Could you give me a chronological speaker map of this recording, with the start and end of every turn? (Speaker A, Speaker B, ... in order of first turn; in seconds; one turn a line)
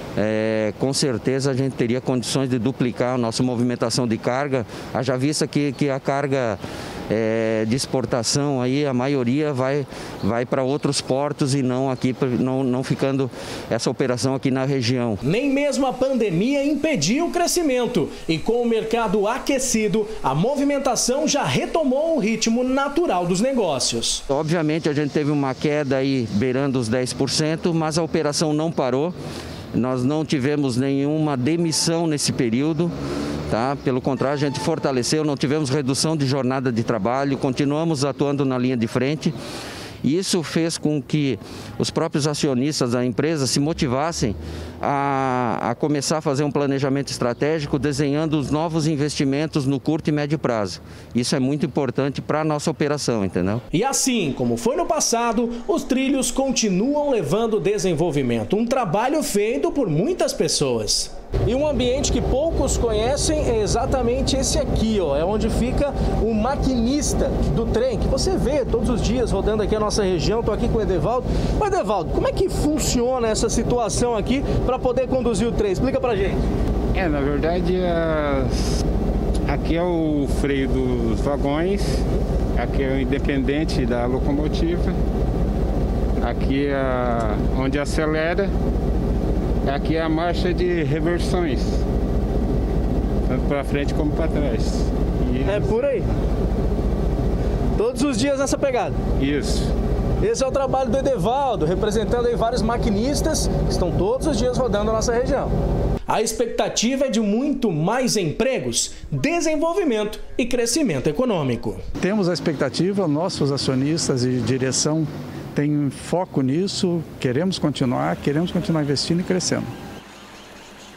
Speaker A: 0.2-15.2
Speaker B: 15.2-24.2
Speaker A: 24.3-29.1
Speaker A: 29.7-32.9
Speaker A: 33.5-39.4
Speaker A: 40.0-53.6
Speaker B: 53.7-76.5
Speaker C: 76.9-78.7
Speaker C: 79.5-82.0
Speaker C: 82.6-85.0
Speaker C: 86.2-88.5
Speaker C: 89.7-91.8
Speaker C: 93.3-96.0
Speaker B: 95.5-96.1
Speaker B: 97.8-99.0
Speaker C: 99.2-99.7
Speaker B: 100.2-105.5
Speaker B: 106.1-111.8
Speaker D: 112.0-119.7